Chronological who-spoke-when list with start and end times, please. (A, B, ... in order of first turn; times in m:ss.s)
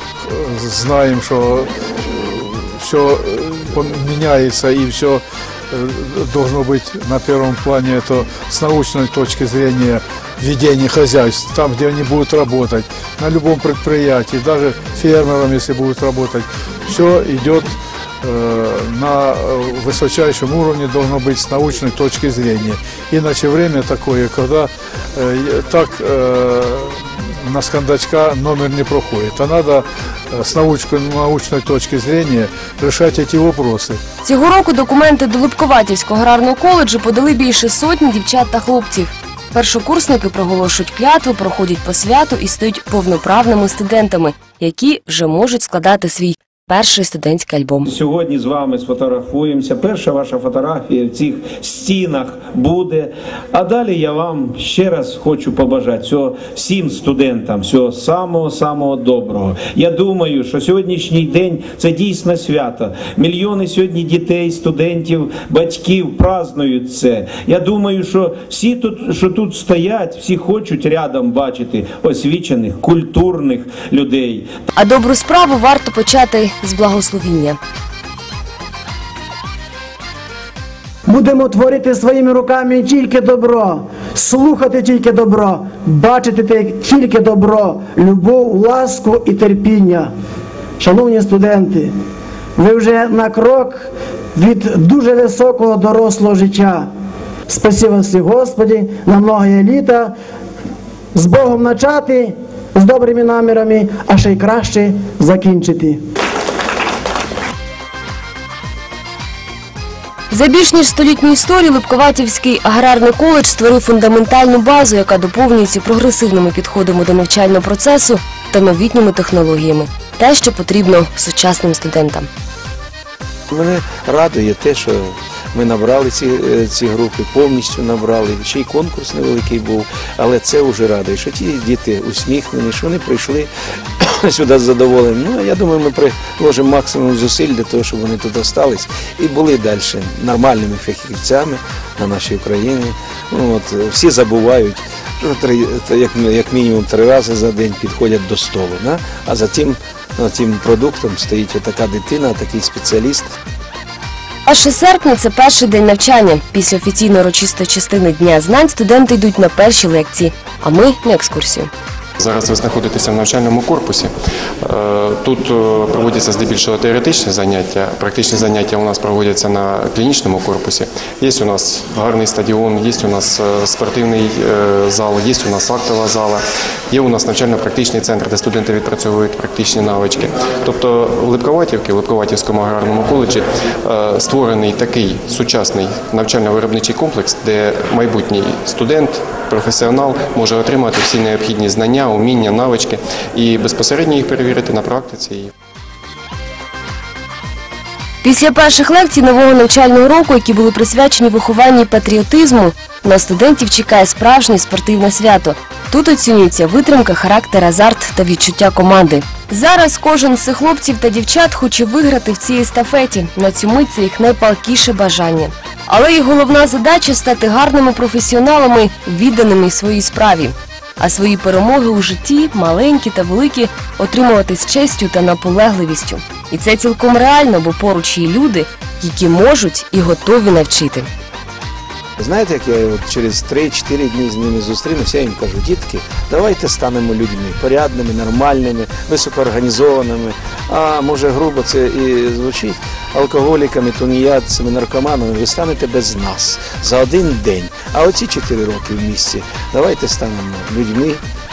0:00.2-0:34.0 A
0:34.2-0:47.9 B
0:47.8-1:14.5 C
1:14.8-1:17.6 B
1:21.1-1:30.1 D
1:30.8-1:31.9 D
1:32.6-1:36.9 D
1:37.5-1:40.1 D
1:41.1-1:46.0 D
1:50.3-2:02.3 B
2:03.5-2:13.5 C
2:14.0-2:33.3 C
2:34.4-2:41.7 B
2:42.2-2:44.1 E
2:44.7-3:15.5 E
3:18.2-3:51.1 B
3:52.2-4:11.2 C